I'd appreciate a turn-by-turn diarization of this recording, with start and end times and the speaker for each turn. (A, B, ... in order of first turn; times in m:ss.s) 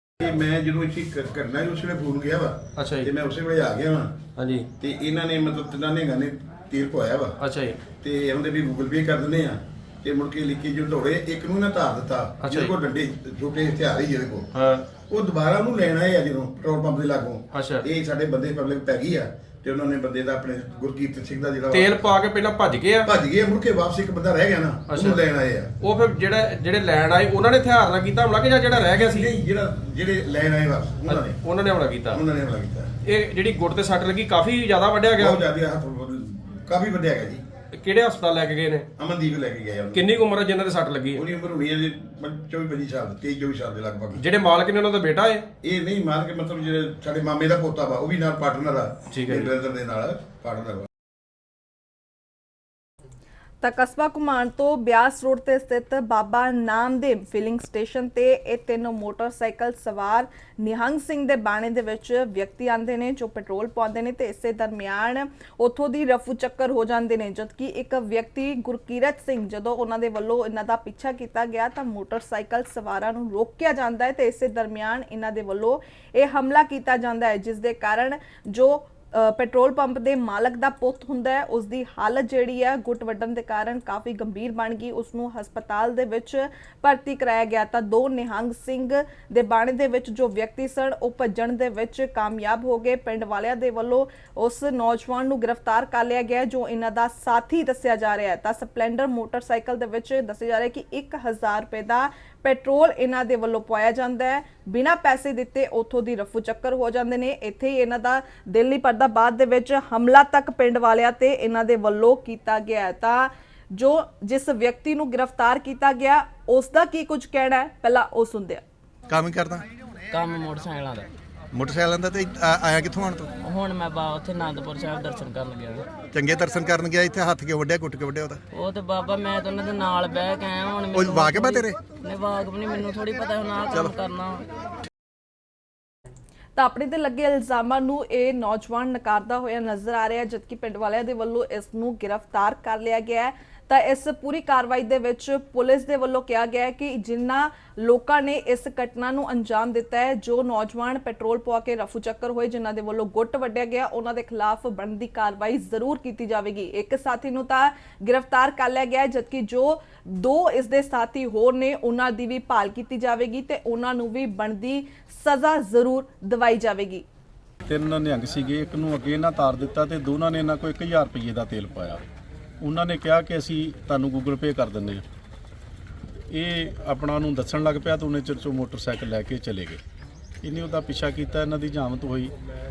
0:00.2-0:04.2 A
0:02.8-0:03.1 B
0:04.4-0:04.6 B
0:04.8-0:07.3 A
0:07.4-0:07.8 B
0:08.0-0:14.5 A
0:12.4-0:12.7 B
0:14.5-0:14.8 B
0:15.1-0:22.1 A
0:17.5-0:17.8 B
0:21.7-0:23.1 B
0:23.0-0:25.7 A
0:24.9-0:25.2 B
0:25.8-0:29.3 B
0:28.8-0:31.4 A
0:31.0-0:32.2 B
0:32.1-0:32.9 A
0:33.0-0:35.4 B
0:35.2-0:37.4 A
0:37.7-0:38.8 B
0:39.0-0:40.1 A
0:39.9-0:41.2 B
0:41.1-0:44.2 A
0:44.2-0:45.4 B
0:45.6-0:50.8 A
0:49.1-0:49.5 B
0:53.6-1:58.6 C
1:59.1-1:59.6 D
2:00.1-2:01.1 E
2:01.5-2:03.3 D
2:03.4-2:05.8 E
2:06.1-2:08.4 D
2:08.5-2:14.4 E
2:10.9-2:11.8 D
2:16.6-2:47.0 C
2:47.7-2:52.0 F
2:52.6-2:55.0 F
2:56.3-2:59.8 F
3:00.4-3:02.3 F